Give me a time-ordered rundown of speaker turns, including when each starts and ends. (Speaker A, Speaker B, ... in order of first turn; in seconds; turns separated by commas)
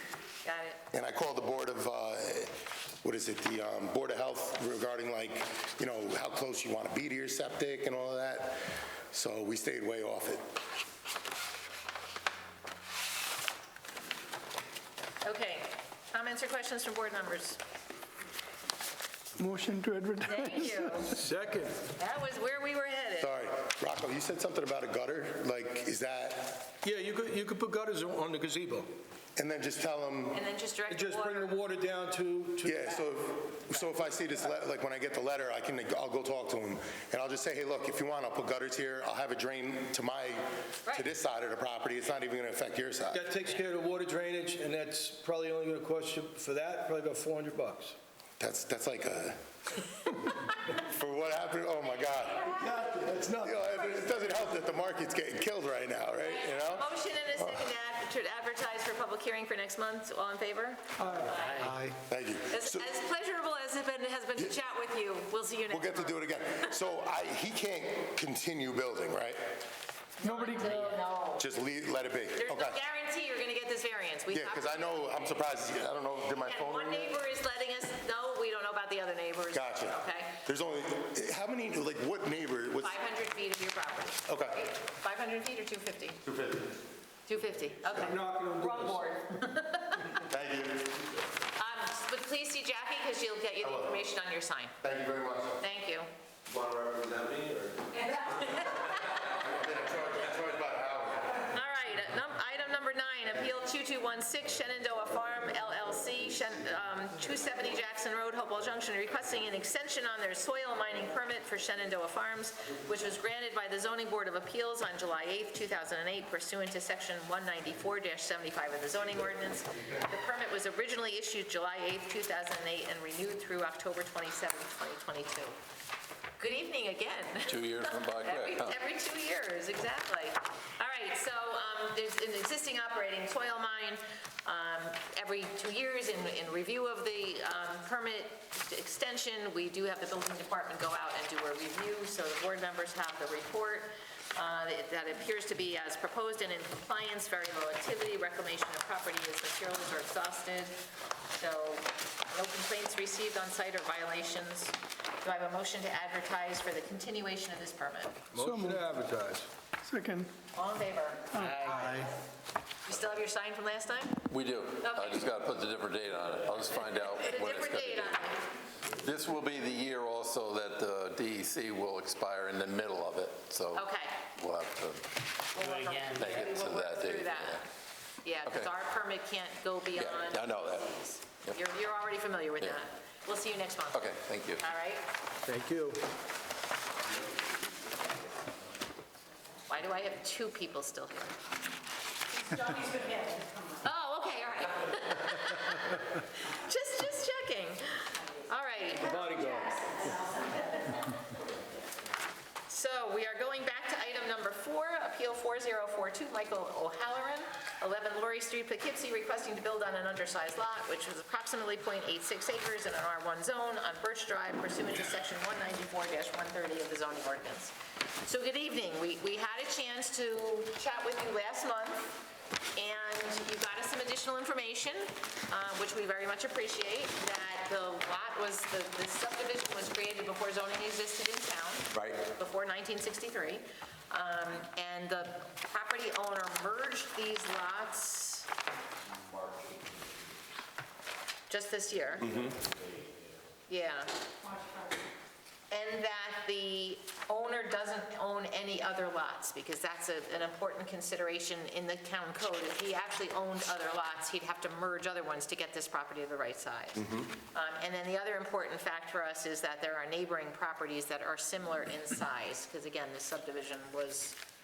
Speaker A: 0.4-0.8, Speaker B: 0.9-10.4, Speaker A: 15.2-17.6, Speaker C: 19.4-21.2, Speaker A: 20.2-21.2, Speaker D: 21.1-21.8, Speaker A: 22.0-23.3, Speaker B: 23.2-26.7, Speaker D: 26.8-28.9, Speaker B: 29.4-30.4, Speaker A: 30.3-31.5, Speaker D: 30.9-33.0, Speaker B: 32.6-43.2, Speaker D: 43.1-48.0, Speaker B: 48.4-49.4, Speaker B: 50.5-52.6, Speaker A: 52.2-52.8, Speaker D: 52.5-54.0, Speaker B: 53.4-57.7, Speaker A: 56.2-61.7, Speaker D: 61.0-61.9, Speaker E: 61.4-61.7, Speaker B: 61.9-62.9, Speaker A: 62.5-66.2, Speaker B: 65.7-69.4, Speaker A: 70.2-71.4, Speaker C: 70.2-70.8, Speaker B: 71.4-72.8, Speaker A: 72.4-75.4, Speaker B: 74.3-77.1, Speaker A: 76.3-80.3, Speaker B: 79.5-83.0, Speaker A: 82.8-86.2, Speaker B: 84.3-84.6, Speaker B: 86.2-86.7, Speaker A: 87.3-90.2, Speaker D: 87.9-89.1, Speaker B: 90.1-91.0, Speaker A: 91.6-94.7, Speaker B: 93.6-93.9, Speaker B: 94.8-95.6, Speaker A: 95.6-96.1, Speaker E: 96.5-97.9, Speaker A: 97.9-99.2, Speaker B: 99.0-101.5, Speaker A: 101.5-125.5, Speaker A: 126.4-150.7, Speaker F: 127.5-128.8, Speaker A: 151.3-158.2, Speaker D: 158.3-159.5, Speaker C: 158.3-158.9, Speaker C: 159.8-160.3, Speaker A: 160.5-162.1, Speaker C: 161.3-162.1, Speaker E: 161.4-162.0, Speaker A: 162.8-164.2, Speaker F: 164.3-168.3, Speaker A: 164.8-165.2, Speaker A: 166.9-168.4, Speaker F: 169.0-175.1, Speaker A: 173.7-174.2, Speaker A: 175.5-177.7, Speaker E: 175.6-176.4, Speaker F: 176.0-177.6, Speaker A: 178.2-185.1, Speaker F: 178.4-178.7, Speaker F: 179.9-181.6, Speaker F: 183.9-184.6, Speaker D: 185.4-186.0, Speaker A: 189.7-191.5, Speaker A: 192.5-201.1, Speaker D: 199.0-200.1, Speaker A: 202.7-217.7, Speaker A: 218.2-222.2, Speaker A: 222.8-238.5, Speaker F: 231.9-232.2, Speaker A: 241.5-242.5, Speaker A: 243.7-244.1, Speaker A: 245.7-264.4